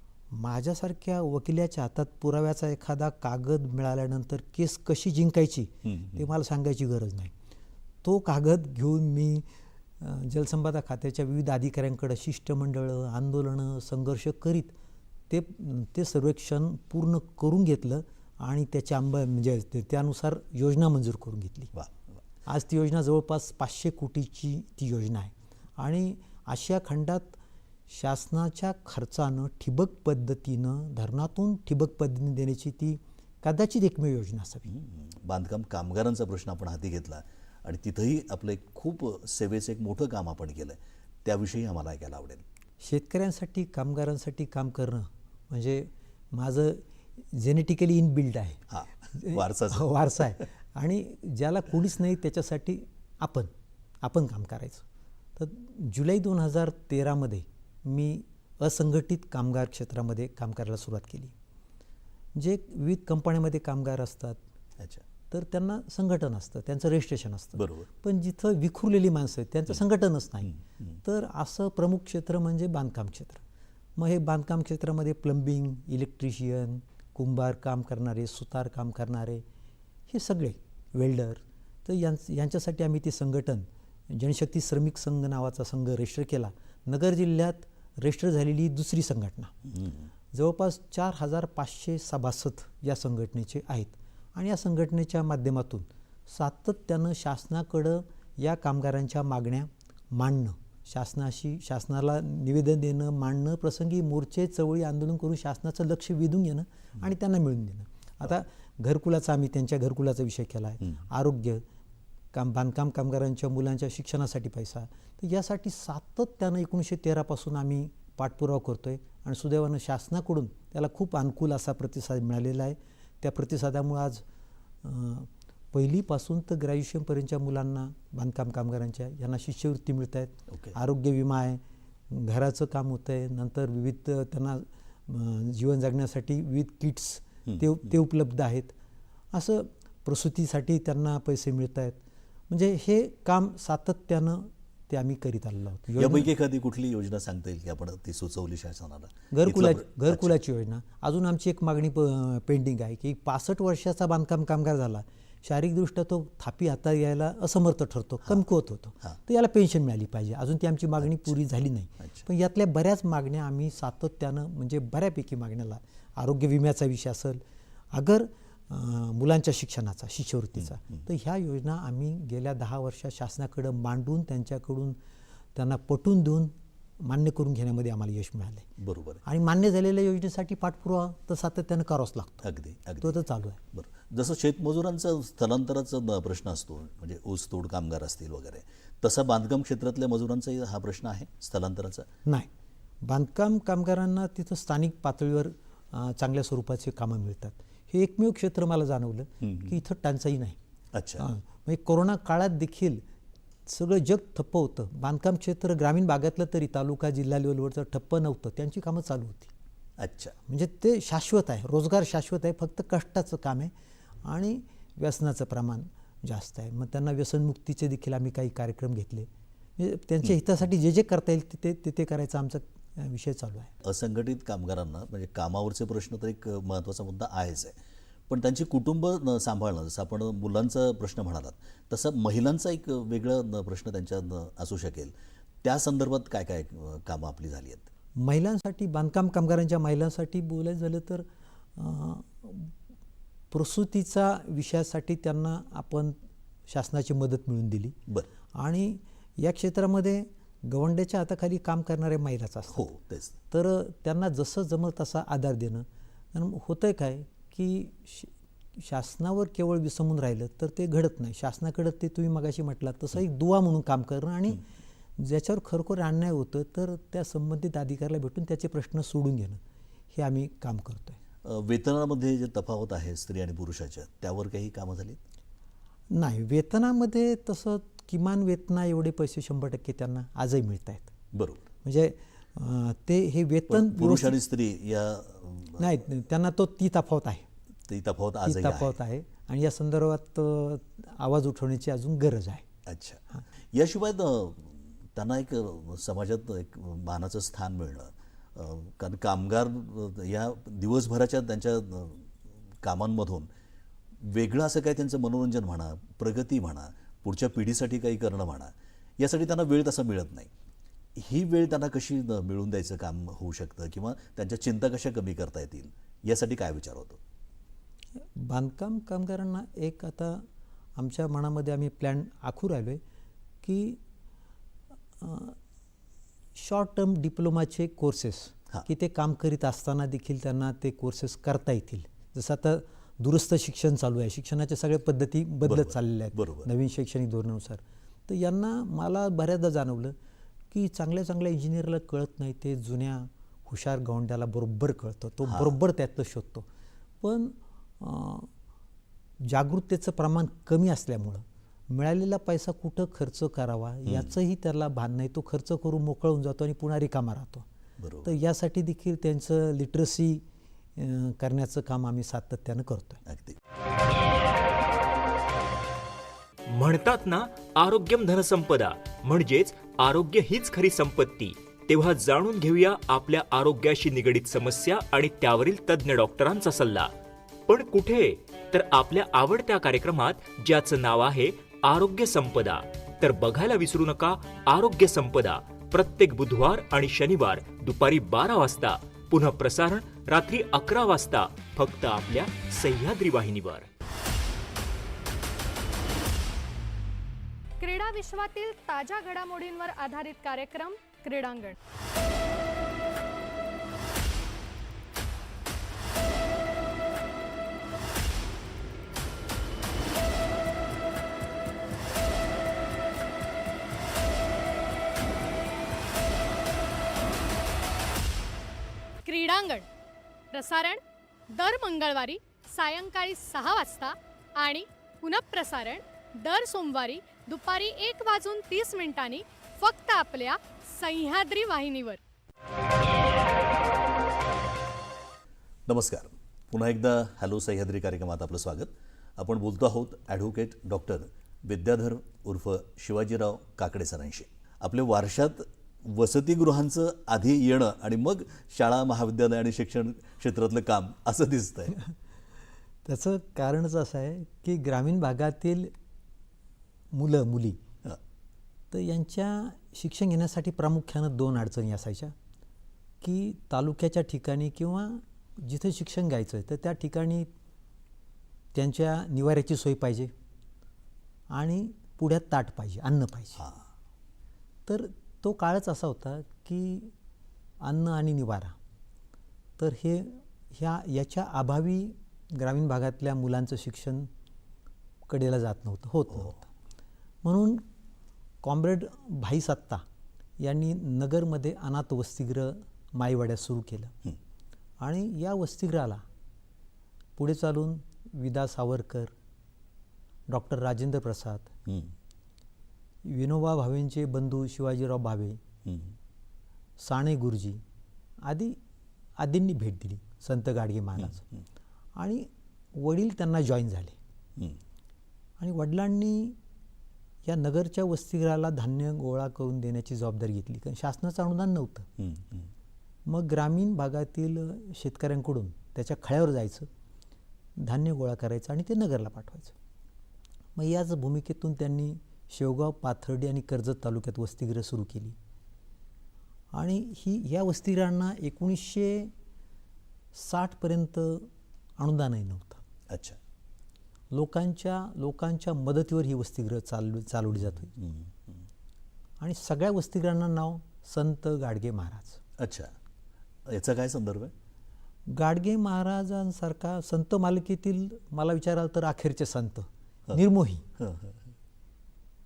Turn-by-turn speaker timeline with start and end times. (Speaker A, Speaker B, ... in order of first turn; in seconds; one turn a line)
Speaker A: 0.3-7.3
Speaker B: 5.8-6.2
Speaker A: 8.0-9.4
Speaker A: 10.0-14.7
Speaker A: 15.3-21.7
Speaker B: 21.7-22.0
Speaker A: 22.4-27.4
Speaker A: 27.9-34.7
Speaker B: 34.6-42.4
Speaker A: 42.8-48.6
Speaker B: 48.7-49.9
Speaker A: 49.1-53.5
Speaker A: 54.0-54.8
Speaker A: 55.4-61.3
Speaker A: 62.3-64.4
Speaker B: 64.8-65.0
Speaker A: 65.3-73.4
Speaker B: 67.5-67.9
Speaker B: 70.4-71.0
Speaker A: 74.0-79.4
Speaker A: 80.1-89.5
Speaker B: 89.7-90.1
Speaker A: 90.3-111.6
Speaker A: 112.3-124.2
Speaker A: 124.8-138.7
Speaker B: 137.4-137.8
Speaker A: 139.3-146.3
Speaker B: 145.9-150.3
Speaker A: 149.3-167.4
Speaker B: 161.0-161.4
Speaker B: 162.0-162.2
Speaker A: 167.9-175.0
Speaker B: 170.6-171.0
Speaker A: 175.5-178.7
Speaker B: 178.8-179.2
Speaker A: 179.2-182.4
Speaker B: 182.4-192.1
Speaker A: 183.0-183.6
Speaker A: 193.0-200.6
Speaker B: 199.4-199.8
Speaker B: 200.9-201.3
Speaker A: 201.2-203.0
Speaker A: 203.7-209.5
Speaker B: 210.0-210.4
Speaker A: 210.5-213.7
Speaker A: 214.2-223.7
Speaker B: 223.8-227.8
Speaker B: 228.3-237.9
Speaker A: 238.2-241.2
Speaker A: 241.8-242.7
Speaker A: 243.5-246.2
Speaker A: 246.7-248.0
Speaker A: 248.5-252.9
Speaker B: 252.7-253.3
Speaker A: 253.5-264.6
Speaker A: 265.2-269.6
Speaker A: 270.1-271.2
Speaker B: 271.4-275.2
Speaker A: 276.1-281.1
Speaker B: 281.3-281.6
Speaker A: 281.8-284.4
Speaker B: 283.7-285.9
Speaker A: 285.8-287.4
Speaker B: 287.9-289.0
Speaker A: 288.4-292.6
Speaker B: 292.9-303.5
Speaker B: 304.2-310.5
Speaker B: 311.1-317.2
Speaker A: 318.4-320.4
Speaker A: 320.9-323.0
Speaker A: 323.6-324.0
Speaker A: 325.2-325.6
Speaker A: 326.6-340.1
Speaker B: 335.6-336.7
Speaker A: 340.7-346.6
Speaker B: 345.4-345.7
Speaker A: 347.2-348.5
Speaker A: 349.4-357.6
Speaker B: 354.1-354.3
Speaker B: 358.0-358.3
Speaker A: 358.2-360.4
Speaker A: 360.9-363.2
Speaker B: 363.2-363.6
Speaker C: 366.7-377.1
Speaker C: 377.7-393.9
Speaker D: 397.8-401.8
Speaker D: 419.2-419.8
Speaker D: 420.5-421.0
Speaker D: 421.5-432.2
Speaker B: 435.9-452.0
Speaker A: 453.0-455.9
Speaker A: 457.1-457.8
Speaker A: 458.9-462.3
Speaker A: 463.2-467.5
Speaker A: 468.7-470.3
Speaker A: 471.5-473.6
Speaker A: 474.9-477.1
Speaker A: 477.8-478.7
Speaker A: 479.8-484.3
Speaker A: 485.3-486.6
Speaker B: 486.3-486.6
Speaker A: 487.4-487.8
Speaker A: 488.6-490.0
Speaker A: 490.6-494.1
Speaker A: 495.0-496.2
Speaker A: 497.4-499.3
Speaker A: 500.5-501.7
Speaker B: 501.9-502.1
Speaker A: 503.2-505.6
Speaker B: 505.8-506.1
Speaker A: 507.0-507.8
Speaker A: 508.4-508.8
Speaker A: 509.4-511.4
Speaker B: 511.2-511.6
Speaker A: 512.1-514.1
Speaker A: 515.6-516.6
Speaker A: 517.4-522.1
Speaker B: 522.2-522.7
Speaker A: 523.2-526.9
Speaker A: 527.8-529.7
Speaker A: 530.7-535.4
Speaker A: 536.7-539.3
Speaker A: 540.3-542.8
Speaker B: 543.1-543.4
Speaker A: 544.3-547.9
Speaker B: 547.5-548.6
Speaker A: 549.4-552.4
Speaker B: 552.6-552.9
Speaker B: 553.6-554.5
Speaker A: 555.3-560.8
Speaker B: 561.0-561.4